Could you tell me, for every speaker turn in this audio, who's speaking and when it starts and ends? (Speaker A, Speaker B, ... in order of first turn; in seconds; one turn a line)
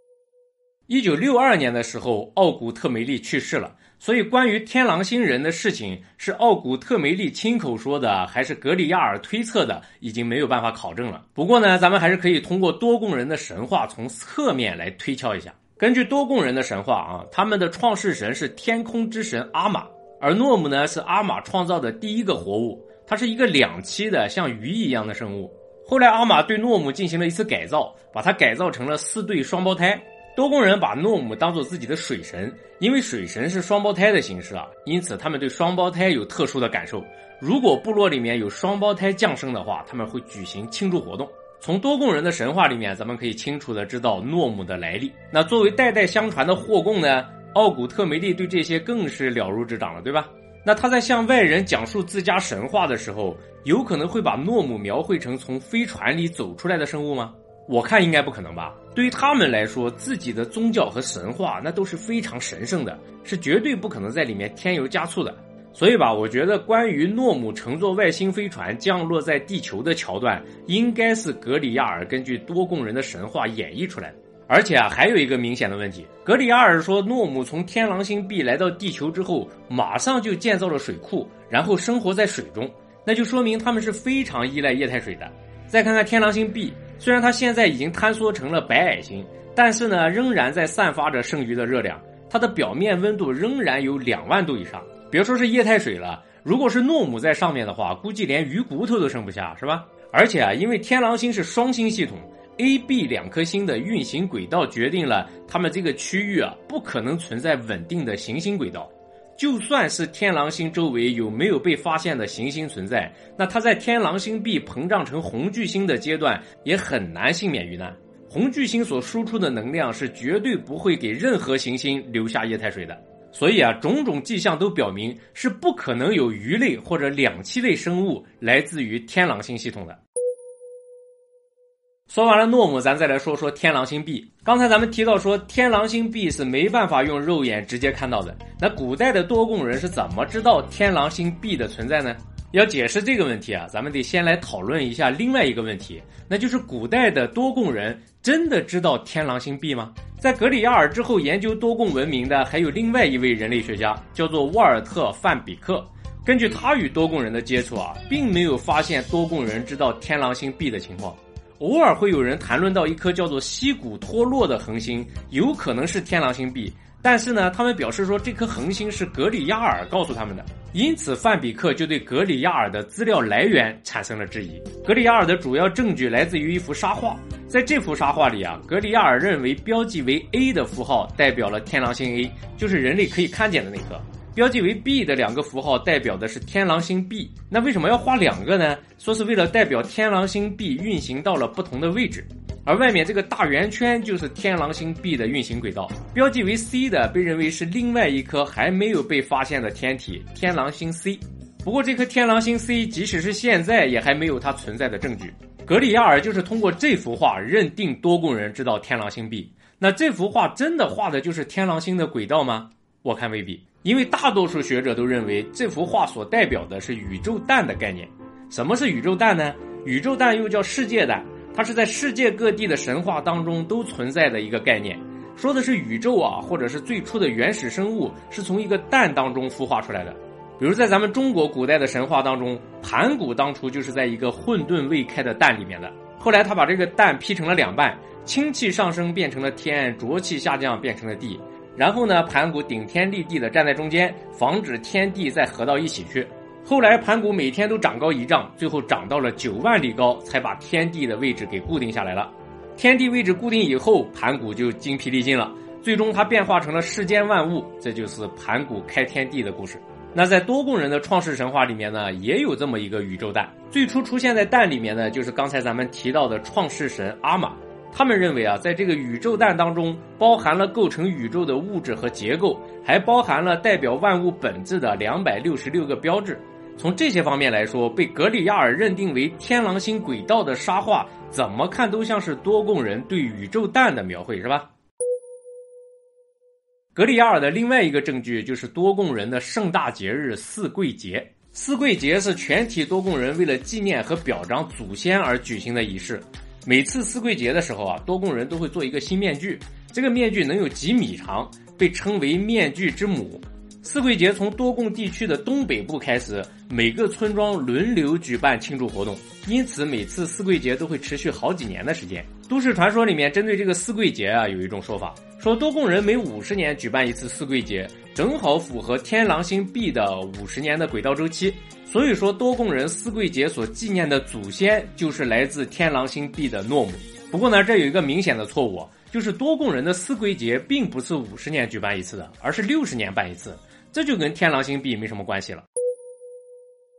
Speaker A: 0.9-130.0
Speaker A: 132.1-284.7
Speaker A: 286.9-335.6